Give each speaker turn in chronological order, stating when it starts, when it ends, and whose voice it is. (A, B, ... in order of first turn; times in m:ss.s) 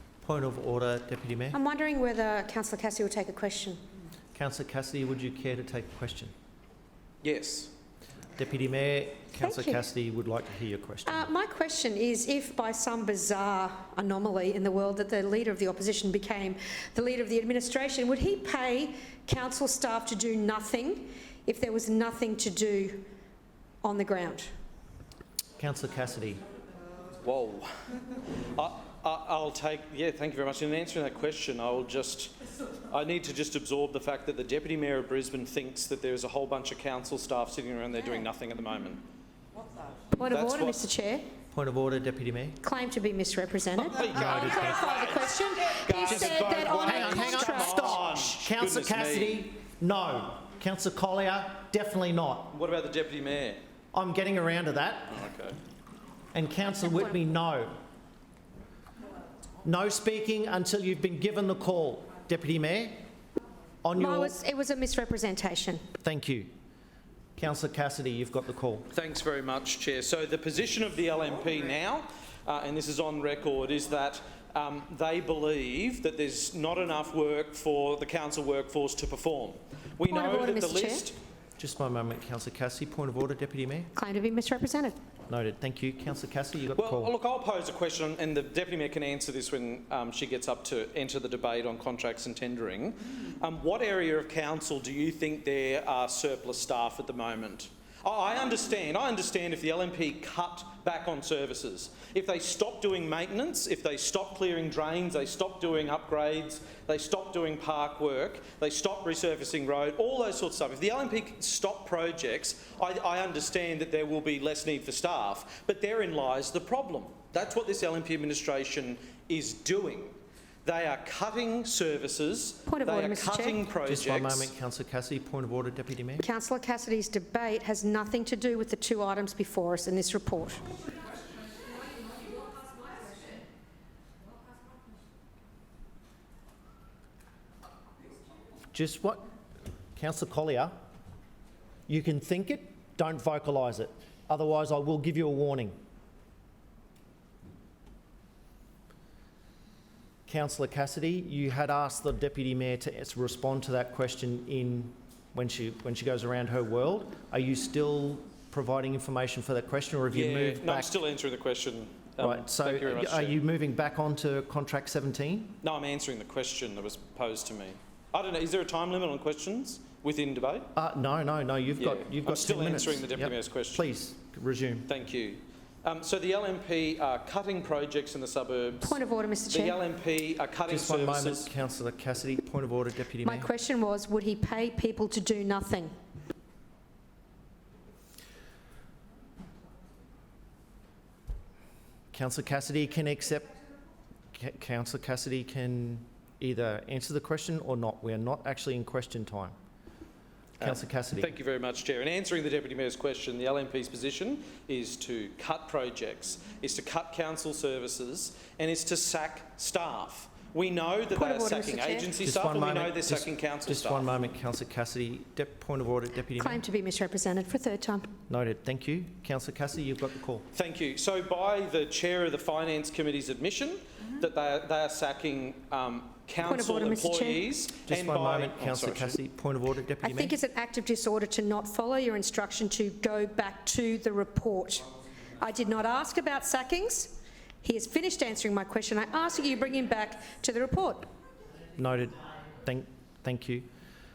0:00.2-0:01.6 A
0:01.5-0:03.8 B
0:04.3-0:06.3 A
0:07.2-0:07.7 C
0:08.4-0:11.3 A
0:09.4-0:09.8 B
0:11.0-0:23.1 B
0:23.8-0:24.5 B
0:25.6-0:26.4 A
0:27.2-0:27.7 C
0:28.4-0:32.3 C
0:32.9-0:39.0 C
0:40.1-0:41.3 B
0:40.3-0:40.8 C
0:41.5-0:42.6 A
0:42.6-0:48.0 B
0:43.8-0:49.4 C
0:44.0-0:44.9 A
0:46.1-0:52.5 A
0:52.5-0:53.6 C
0:53.9-0:55.2 A
0:55.1-0:55.6 C
0:56.3-0:57.8 A
0:59.6-1:03.0 A
1:03.8-1:04.3 A
1:03.9-1:05.8 B
1:06.0-1:06.5 A
1:07.4-1:08.9 A
1:08.9-1:21.2 C
1:20.1-1:21.1 B
1:21.6-1:23.9 A
1:24.0-1:25.0 B
1:25.3-1:27.1 A
1:26.8-2:04.5 C
2:02.7-2:03.6 B
2:03.8-2:06.2 A
2:06.2-2:10.6 B
2:18.7-2:19.2 A
2:19.9-2:20.7 A
2:21.9-2:25.8 A
2:30.3-2:40.9 A
2:40.1-2:43.4 C
2:42.2-2:45.6 A
2:45.6-2:50.7 C
2:50.7-2:54.9 A
2:51.8-2:53.9 C
2:54.9-3:01.5 C
2:58.8-2:59.8 B
3:00.7-3:03.5 A
3:03.2-3:05.9 B
3:12.1-3:13.5 A
3:14.3-3:19.5 A
3:20.6-3:34.1 C
3:20.6-3:21.3 A
3:31.1-3:32.1 B
3:32.2-3:36.6 A
3:36.4-3:38.1 B
3:38.3-3:40.5 A
3:40.5-3:49.2 C
3:46.4-3:47.4 B
3:47.9-3:50.4 A
3:50.0-4:01.1 B
4:01.8-4:03.7 A